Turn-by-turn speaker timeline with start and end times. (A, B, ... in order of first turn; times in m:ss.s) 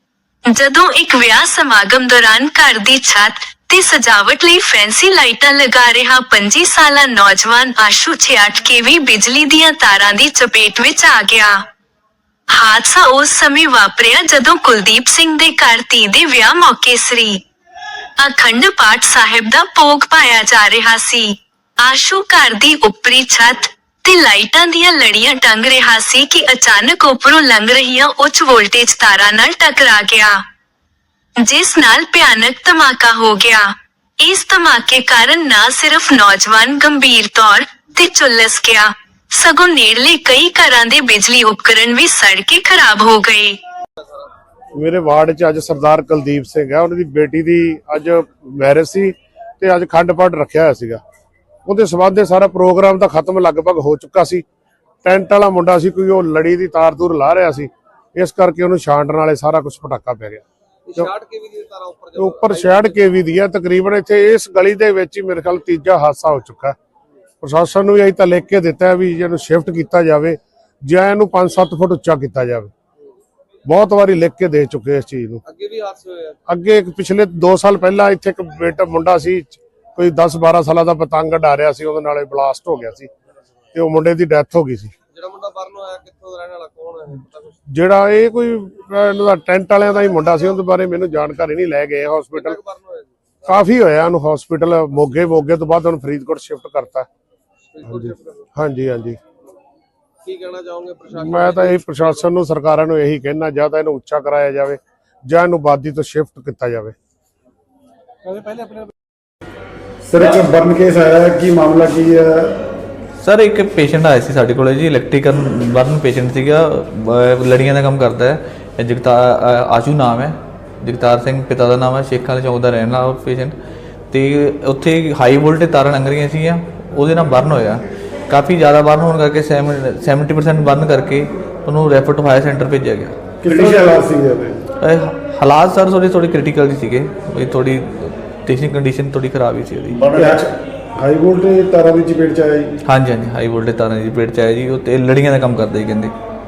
0:00.5-0:11.6 A
0:12.5-0:17.4 A
0:18.2-0:30.3 A
0:31.4-0:33.7 A
0:34.2-0:43.6 A
0:44.7-0:51.0 B
0:51.6-0:54.4 B
0:55.0-1:01.1 B
1:01.3-1:02.0 C
1:02.2-1:06.8 B
1:07.4-1:12.7 B
1:13.6-1:15.4 B
1:15.7-1:16.4 C
1:16.5-1:23.1 B
1:23.7-1:24.9 B
1:26.1-1:27.6 C
1:27.7-1:32.6 B
1:32.7-1:33.1 C
1:33.4-1:37.1 B
1:37.8-1:39.2 B
1:40.4-1:41.1 C
1:41.1-1:46.9 B
1:50.1-1:52.7 D
1:53.2-2:03.5 E
2:04.1-2:14.0 E
2:13.4-2:14.6 D
2:14.8-2:20.1 E
2:19.9-2:20.5 C
2:20.1-2:22.7 D
2:22.8-2:26.1 E